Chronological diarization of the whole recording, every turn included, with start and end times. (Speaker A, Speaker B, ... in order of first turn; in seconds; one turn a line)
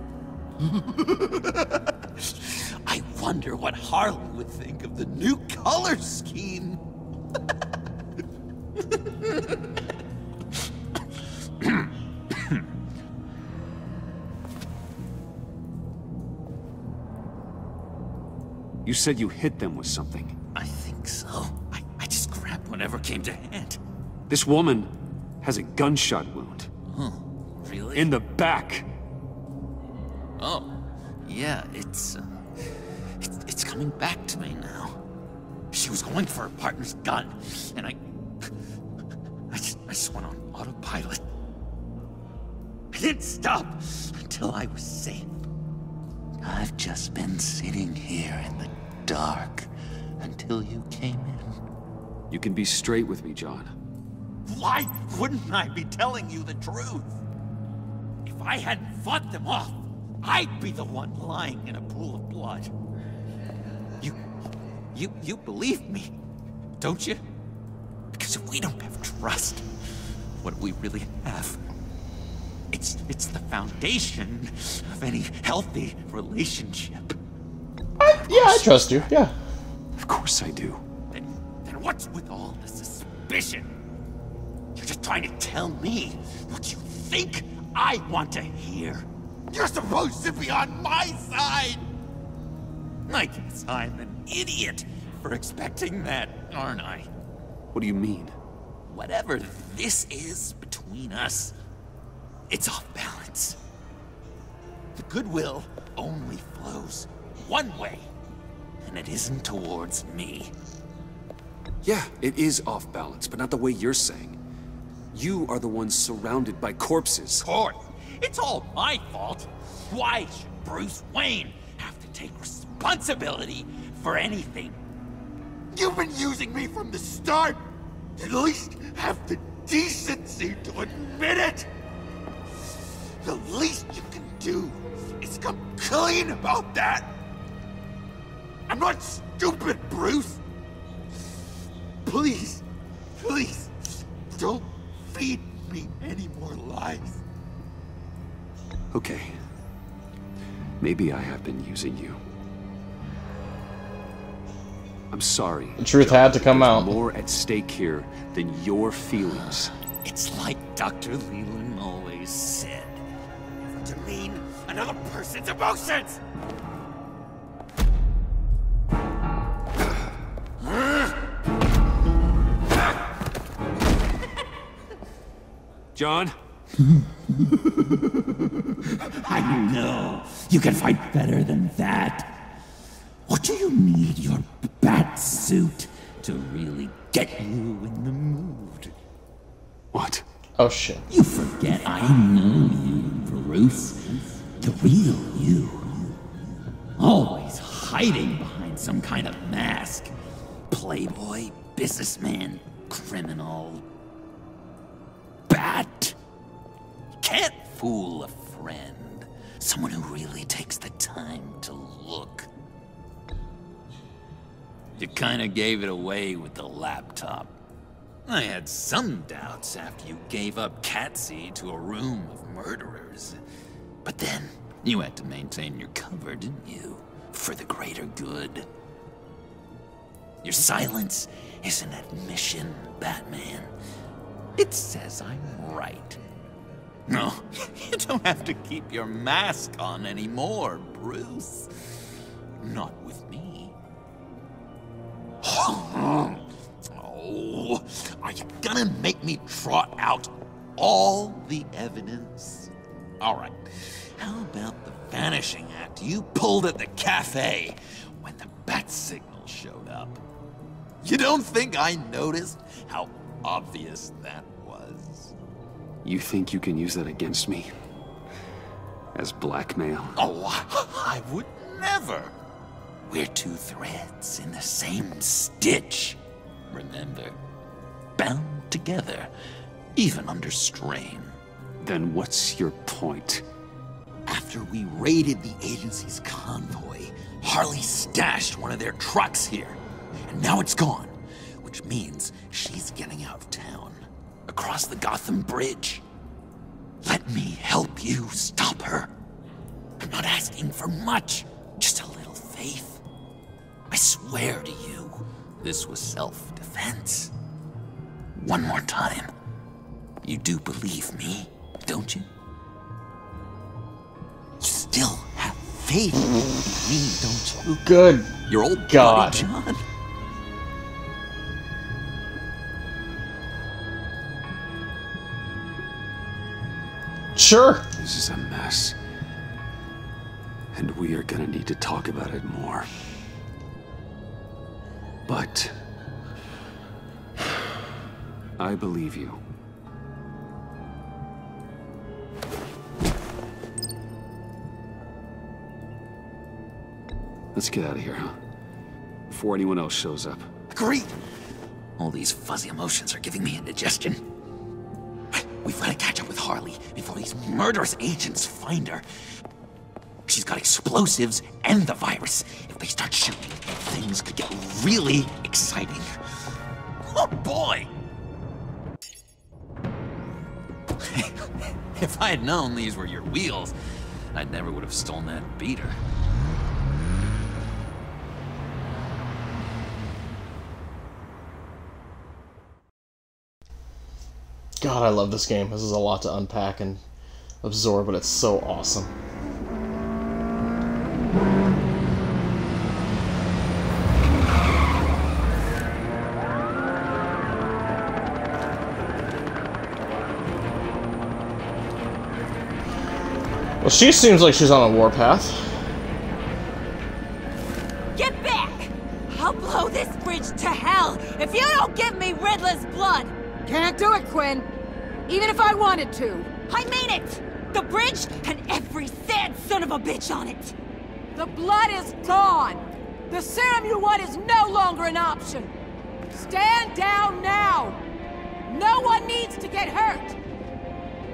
Speaker A: 0.7-6.8
Speaker A: 11.6-12.6
Speaker B: 18.9-20.4
Speaker A: 20.5-23.8
Speaker B: 24.3-26.7
Speaker A: 26.9-28.1
Speaker B: 27.9-28.9
Speaker A: 30.4-32.3
Speaker A: 33.2-35.0
Speaker A: 35.7-38.0
Speaker A: 39.5-41.2
Speaker A: 42.9-45.4
Speaker A: 46.4-49.7
Speaker A: 50.2-51.6
Speaker B: 52.3-53.7
Speaker A: 54.5-57.2
Speaker A: 58.2-62.7
Speaker A: 64.9-66.1
Speaker A: 66.8-67.2
Speaker A: 68.1-69.7
Speaker A: 70.4-71.6
Speaker A: 72.7-77.2
Speaker C: 78.0-79.3
Speaker A: 78.1-79.1
Speaker B: 80.0-80.8
Speaker A: 81.1-83.7
Speaker A: 84.8-91.8
Speaker A: 93.1-97.1
Speaker B: 97.7-98.3
Speaker A: 98.9-101.5
Speaker A: 102.5-103.6
Speaker A: 105.0-108.1
Speaker A: 108.8-110.5
Speaker B: 111.8-114.4
Speaker B: 115.1-117.5
Speaker A: 117.4-124.8
Speaker A: 125.7-127.6
Speaker A: 128.2-131.7
Speaker A: 133.2-137.1
Speaker A: 138.7-140.4
Speaker A: 142.0-142.6
Speaker A: 143.2-143.7
Speaker A: 144.3-147.2
Speaker B: 148.9-149.3
Speaker B: 150.8-152.2
Speaker B: 155.1-159.7
Speaker C: 155.8-156.9
Speaker A: 160.0-163.0
Speaker A: 163.7-166.2
Speaker B: 175.9-176.3
Speaker A: 179.1-182.4
Speaker A: 183.3-188.9
Speaker B: 189.9-190.2
Speaker C: 190.6-191.1
Speaker A: 191.1-196.2
Speaker A: 197.0-200.1
Speaker A: 200.7-203.8
Speaker A: 205.5-206.2
Speaker A: 207.2-212.5
Speaker A: 215.0-217.5
Speaker A: 218.3-223.4
Speaker A: 224.1-228.7
Speaker A: 230.4-233.7
Speaker A: 234.6-236.2
Speaker A: 237.1-241.7
Speaker A: 242.6-243.7
Speaker A: 245.4-260.2
Speaker A: 261.0-265.3
Speaker B: 266.0-267.7
Speaker B: 269.1-270.2
Speaker A: 270.2-272.3
Speaker A: 273.1-276.2
Speaker A: 276.7-277.4
Speaker A: 278.2-279.3
Speaker A: 280.0-281.4
Speaker B: 281.8-283.4
Speaker A: 284.3-296.0
Speaker A: 297.0-299.1
Speaker A: 300.0-303.0
Speaker A: 303.9-307.3
Speaker A: 308.4-309.3
Speaker A: 310.2-312.3
Speaker A: 314.6-317.9
Speaker C: 317.9-318.3
Speaker A: 318.5-319.8
Speaker C: 318.9-319.5
Speaker C: 327.4-327.9
Speaker B: 328.0-329.0
Speaker B: 330.7-332.9
Speaker B: 335.3-335.8
Speaker B: 338.6-339.4
Speaker B: 347.5-348.4
Speaker B: 349.3-350.5
Speaker A: 350.7-351.1
Speaker A: 352.0-354.2
Speaker A: 355.3-359.1
Speaker A: 360.3-366.1
Speaker A: 367.1-367.9
Speaker A: 371.0-373.8
Speaker A: 374.3-376.0
Speaker C: 384.8-387.0
Speaker C: 387.6-389.1
Speaker C: 403.8-405.9
Speaker D: 408.1-413.4
Speaker E: 413.6-414.7
Speaker E: 415.3-416.6
Speaker D: 416.6-420.8
Speaker E: 421.4-425.7
Speaker E: 426.3-428.0
Speaker E: 428.7-430.4